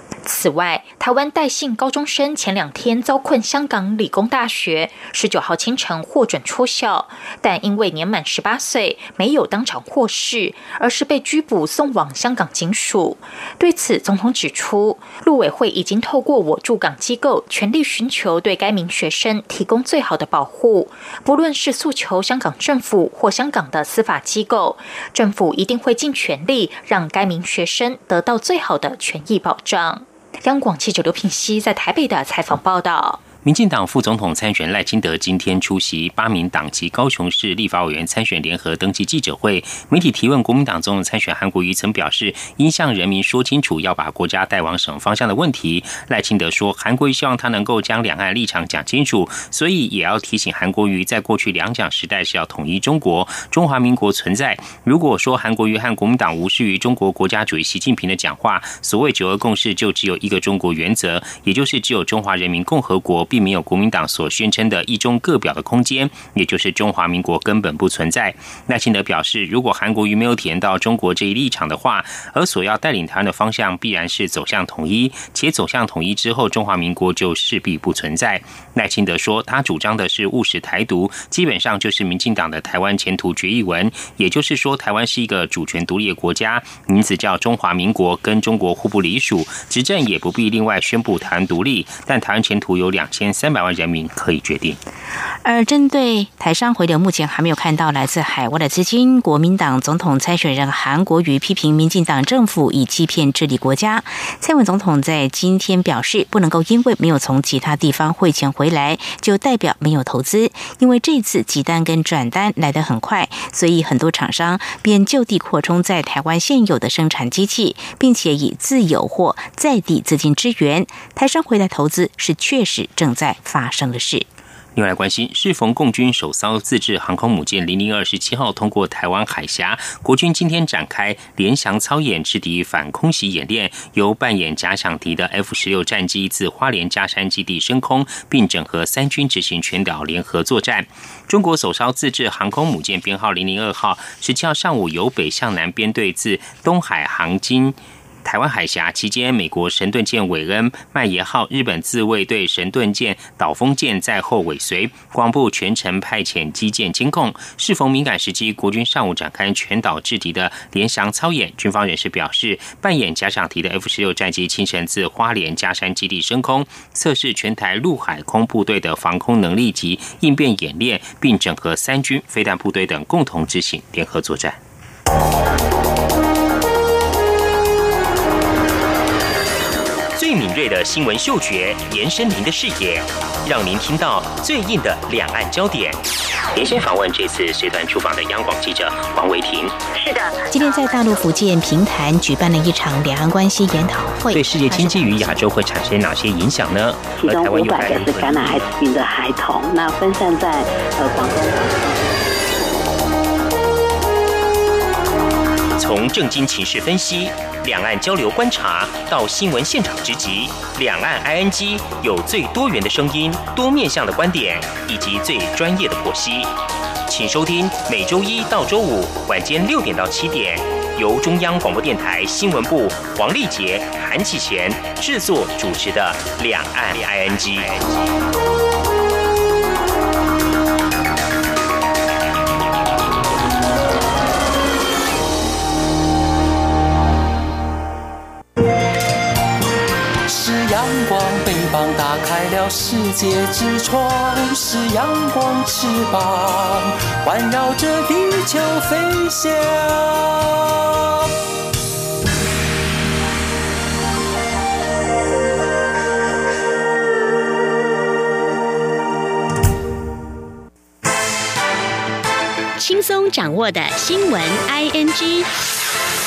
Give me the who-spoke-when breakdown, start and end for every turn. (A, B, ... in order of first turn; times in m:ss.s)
0:00.2-0:33.2 A
0:33.4-1:34.8 B
1:35.4-2:04.2 C
2:04.7-2:54.6 B
3:00.2-3:06.0 B
3:06.5-3:09.7 B
3:09.9-3:10.5 D
3:10.5-3:15.4 C
3:14.3-3:18.4 B
3:17.2-3:21.4 D
3:25.8-3:36.5 B
3:37.1-3:47.7 B
4:00.2-4:11.0 E
4:22.8-4:25.5 F